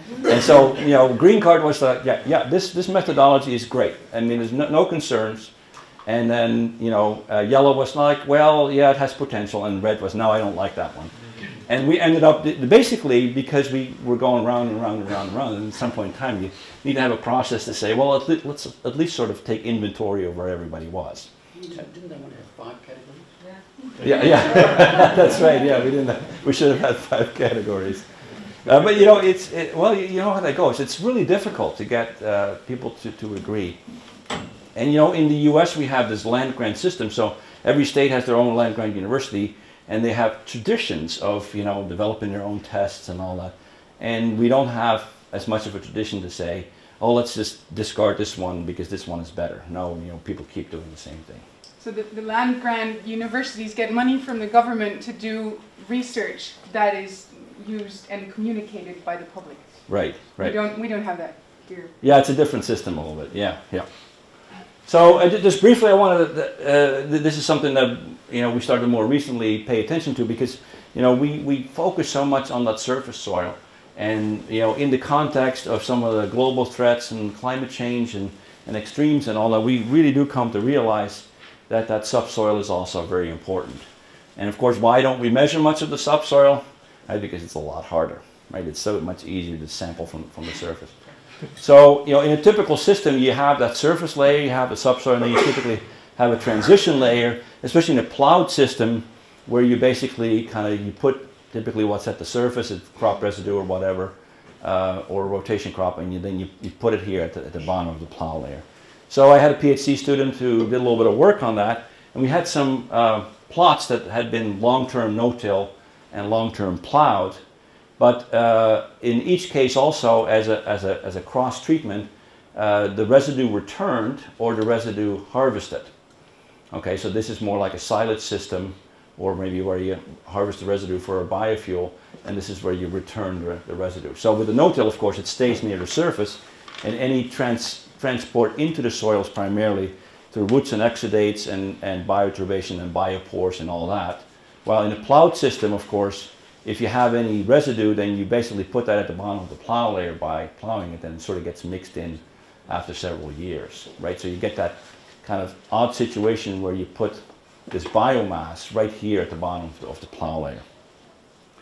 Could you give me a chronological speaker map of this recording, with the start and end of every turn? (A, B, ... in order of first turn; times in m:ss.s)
0:00.2-0:05.5 A
0:06.0-0:11.1 A
0:11.6-0:21.3 A
0:21.5-0:23.3 B
0:24.0-0:28.1 A
0:24.7-0:25.1 B
0:28.6-0:33.8 A
0:34.7-0:51.4 A
0:51.8-0:59.8 C
0:59.9-1:00.6 A
1:00.4-1:01.9 C
1:02.0-1:03.8 A
1:04.8-1:23.8 A
1:24.4-1:30.9 A
1:31.6-1:57.4 A
1:58.0-2:05.9 A
2:06.7-2:40.6 A